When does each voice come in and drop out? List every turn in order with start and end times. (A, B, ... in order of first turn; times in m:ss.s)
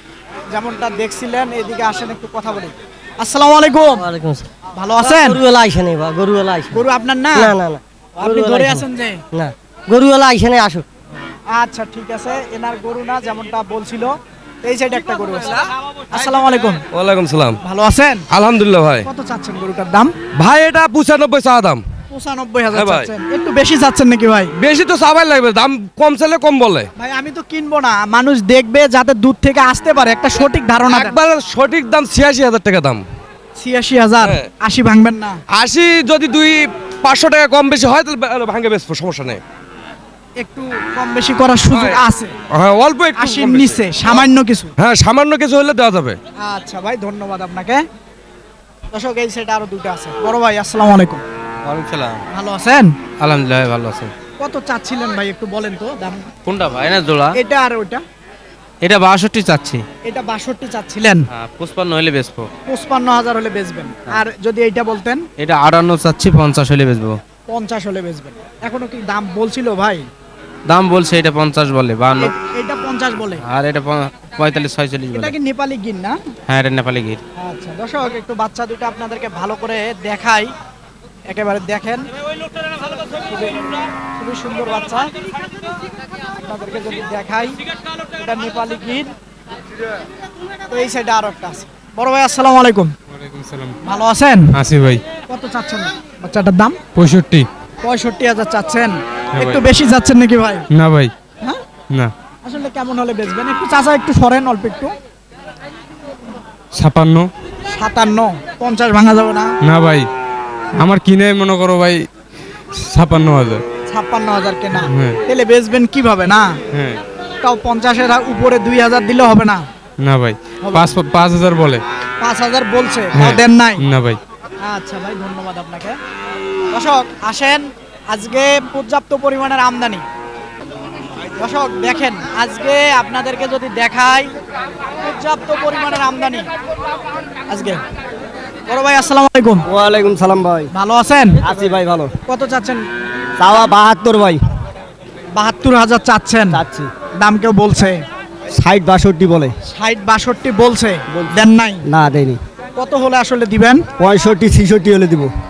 0:00.5-0:04.0 A
0:03.9-0:04.5 B
0:04.8-0:05.4 A
0:05.0-0:06.8 B
0:06.7-0:07.5 A
0:07.4-0:10.8 B
0:08.2-0:09.2 A
0:11.5-0:16.8 A
0:16.9-0:17.6 C
0:17.6-0:18.2 A
0:18.3-0:19.1 C
0:19.0-0:20.1 A
0:20.4-0:21.8 C
0:22.1-0:24.5 A
0:22.7-0:23.1 C
0:24.6-0:26.9 C
0:27.0-0:31.2 A
0:30.9-0:33.0 C
0:33.6-0:35.4 A
0:35.5-0:39.4 C
0:40.4-0:42.3 A
0:41.7-0:46.2 C
0:43.2-0:44.7 A
0:46.4-0:47.8 A
0:48.9-0:51.2 A
0:51.6-0:52.2 D
0:52.3-0:52.9 A
0:53.2-0:54.1 D
0:54.4-0:56.3 A
0:56.5-0:57.2 D
0:57.3-0:58.0 A
0:58.8-0:59.8 D
1:00.0-1:01.2 A
1:01.3-1:02.5 D
1:02.7-1:05.2 A
1:05.4-1:07.2 D
1:07.5-1:10.1 A
1:10.7-1:12.3 D
1:12.2-1:13.4 A
1:13.4-1:15.3 D
1:15.1-1:16.2 A
1:16.5-1:17.2 D
1:17.4-1:20.5 A
1:21.3-1:22.0 A
1:23.3-1:25.1 A
1:26.3-1:27.6 A
1:28.2-1:29.1 A
1:30.7-1:32.9 A
1:33.1-1:33.7 E
1:33.8-1:34.5 A
1:34.5-1:35.0 E
1:35.3-1:36.8 A
1:36.9-1:37.5 E
1:37.8-1:40.6 A
1:39.3-1:39.6 E
1:40.7-1:41.1 E
1:42.4-1:44.9 A
1:46.7-1:47.3 E
1:47.7-1:49.5 A
1:49.6-1:50.1 E
1:50.8-1:52.0 E
1:52.8-1:53.6 E
1:53.9-1:56.6 A
1:54.8-1:55.2 E
1:56.7-1:57.0 E
1:57.4-1:59.6 A
2:00.0-2:01.8 E
2:00.6-2:00.9 A
2:02.2-2:03.8 A
2:03.1-2:04.2 E
2:04.6-2:06.0 A
2:06.7-2:10.0 A
2:11.4-2:14.3 A
2:15.0-2:16.5 A
2:17.5-2:17.8 A
2:18.7-2:19.6 A
2:19.7-2:20.7 B
2:20.7-2:21.4 A
2:21.4-2:22.1 B
2:22.3-2:22.8 A
2:23.4-2:24.4 B
2:25.3-2:26.6 A
2:26.6-2:26.8 B
2:27.2-2:28.0 A
2:28.6-2:29.5 B
2:29.7-2:31.8 A
2:31.9-2:32.4 B
2:32.8-2:33.8 A
2:34.0-2:35.3 B